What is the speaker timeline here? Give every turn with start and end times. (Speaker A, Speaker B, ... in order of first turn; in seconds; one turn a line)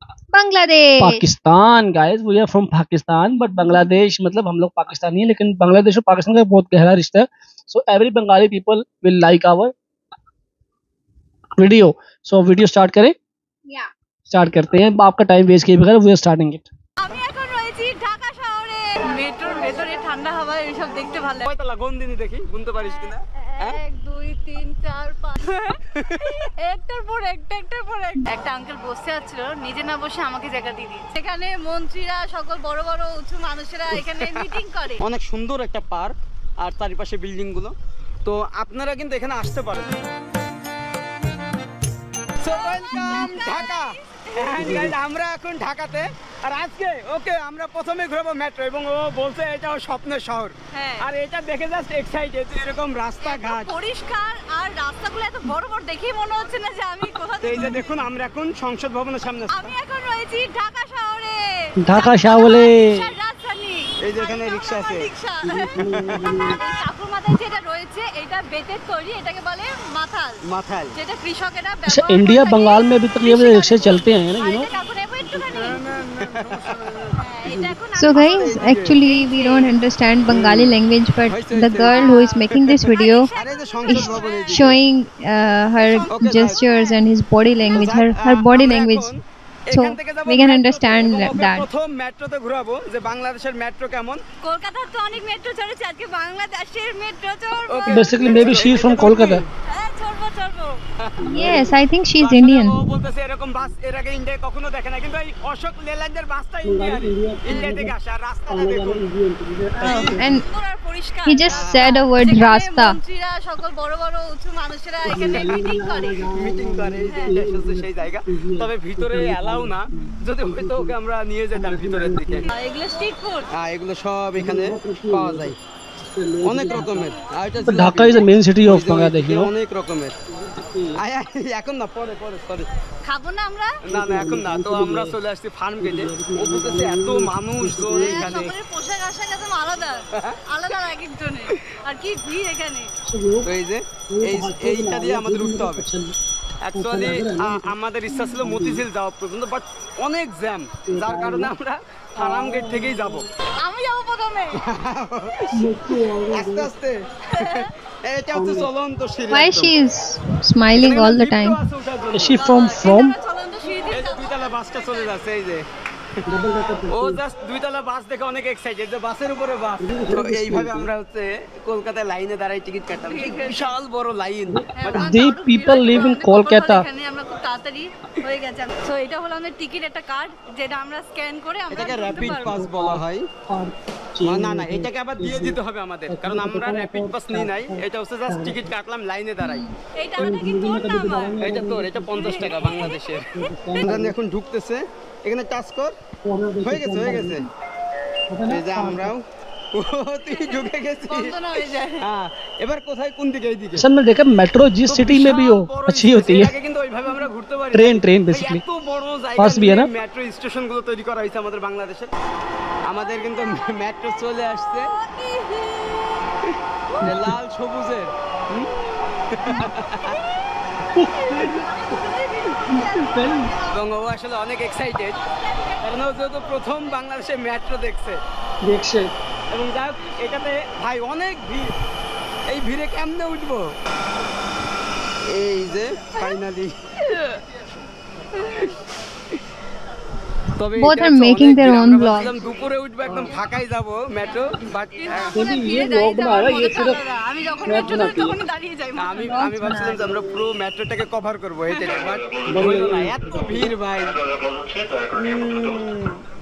Speaker A: 0.3-1.2
Speaker B: 1.0-9.7
Speaker B: 11.6-13.2
Speaker B: 14.3-16.7
Speaker C: 17.0-21.5
Speaker D: 21.4-23.8
Speaker C: 23.5-35.0
Speaker D: 34.0-40.0
Speaker D: 42.4-53.8
Speaker C: 42.7-44.8
Speaker A: 43.0-43.4
Speaker B: 44.6-45.0
Speaker C: 50.7-51.1
Speaker C: 53.2-57.9
Speaker D: 57.4-59.7
Speaker C: 59.5-70.4
Speaker B: 61.8-63.0
Speaker D: 64.0-65.1
Speaker B: 65.5-66.6
Speaker D: 65.8-66.3
Speaker D: 70.4-71.0
Speaker C: 71.0-75.8
Speaker B: 71.9-74.7
Speaker D: 75.5-79.0
Speaker C: 77.2-79.7
Speaker A: 78.0-83.3
Speaker D: 80.3-80.7
Speaker D: 81.3-82.1
Speaker C: 81.9-84.8
Speaker D: 83.3-84.8
Speaker A: 83.9-89.1
Speaker D: 85.9-86.7
Speaker C: 86.7-87.0
Speaker D: 87.7-94.2
Speaker A: 89.7-91.7
Speaker C: 94.4-100.8
Speaker D: 97.7-99.5
Speaker B: 97.9-99.4
Speaker D: 101.0-101.7
Speaker B: 101.2-101.8
Speaker A: 101.3-102.8
Speaker D: 102.2-109.0
Speaker B: 106.7-107.9
Speaker B: 108.5-110.4
Speaker D: 109.8-110.2
Speaker A: 109.8-110.5
Speaker C: 110.2-116.3
Speaker A: 111.3-113.0
Speaker D: 111.5-111.9
Speaker B: 115.1-121.0
Speaker D: 115.2-115.7
Speaker D: 116.3-122.5
Speaker C: 117.1-117.4
Speaker B: 121.5-122.5
Speaker C: 122.5-123.5
Speaker D: 123.5-125.6
Speaker B: 124.4-127.1
Speaker D: 126.4-130.2
Speaker B: 127.6-129.5
Speaker B: 130.3-131.0
Speaker D: 131.0-132.7
Speaker C: 133.1-133.8
Speaker D: 133.8-138.6
Speaker B: 133.9-135.2
Speaker B: 135.8-138.4
Speaker C: 137.9-142.9
Speaker B: 143.1-143.5
Speaker D: 143.4-145.9
Speaker B: 144.1-146.2
Speaker D: 146.6-153.3
Speaker B: 146.7-147.7
Speaker B: 148.4-148.8
Speaker B: 150.9-151.5
Speaker B: 152.2-153.3
Speaker C: 153.6-154.6
Speaker D: 154.6-155.5
Speaker B: 155.5-156.7
Speaker D: 156.3-159.7
Speaker C: 157.3-157.7
Speaker B: 158.3-158.7
Speaker A: 159.3-161.6
Speaker D: 160.8-162.4
Speaker B: 162.1-163.2
Speaker C: 162.4-164.4
Speaker D: 163.9-165.7
Speaker B: 166.3-167.2
Speaker D: 166.9-175.1
Speaker B: 169.8-170.9
Speaker C: 173.1-173.7
Speaker B: 174.5-176.9
Speaker C: 174.8-182.6
Speaker D: 181.7-183.3
Speaker B: 182.1-188.7
Speaker D: 184.2-189.7
Speaker A: 189.4-189.7
Speaker C: 190.0-191.4
Speaker B: 190.2-194.2
Speaker D: 191.4-196.0
Speaker C: 192.2-193.0
Speaker B: 196.2-197.5
Speaker D: 196.6-197.5
Speaker B: 198.3-199.1
Speaker D: 198.5-201.4
Speaker C: 200.3-202.0
Speaker D: 202.0-203.8
Speaker B: 203.8-206.5
Speaker D: 204.9-212.1
Speaker B: 207.7-208.6
Speaker B: 209.4-209.9
Speaker D: 212.9-214.9
Speaker C: 214.8-216.2
Speaker D: 217.0-218.7
Speaker B: 217.0-217.3
Speaker D: 219.3-220.2
Speaker B: 221.0-221.6
Speaker C: 221.3-223.6
Speaker B: 222.7-223.5
Speaker D: 223.7-225.2
Speaker D: 225.8-228.2
Speaker B: 228.6-229.1
Speaker D: 229.5-231.7
Speaker D: 232.5-233.7
Speaker D: 235.3-236.7
Speaker D: 240.6-245.4
Speaker A: 240.8-242.5
Speaker B: 243.1-243.4
Speaker C: 245.0-249.4
Speaker B: 245.3-247.0
Speaker B: 247.6-248.4
Speaker D: 249.0-254.2
Speaker A: 249.2-250.2
Speaker B: 252.5-253.7
Speaker D: 255.2-256.2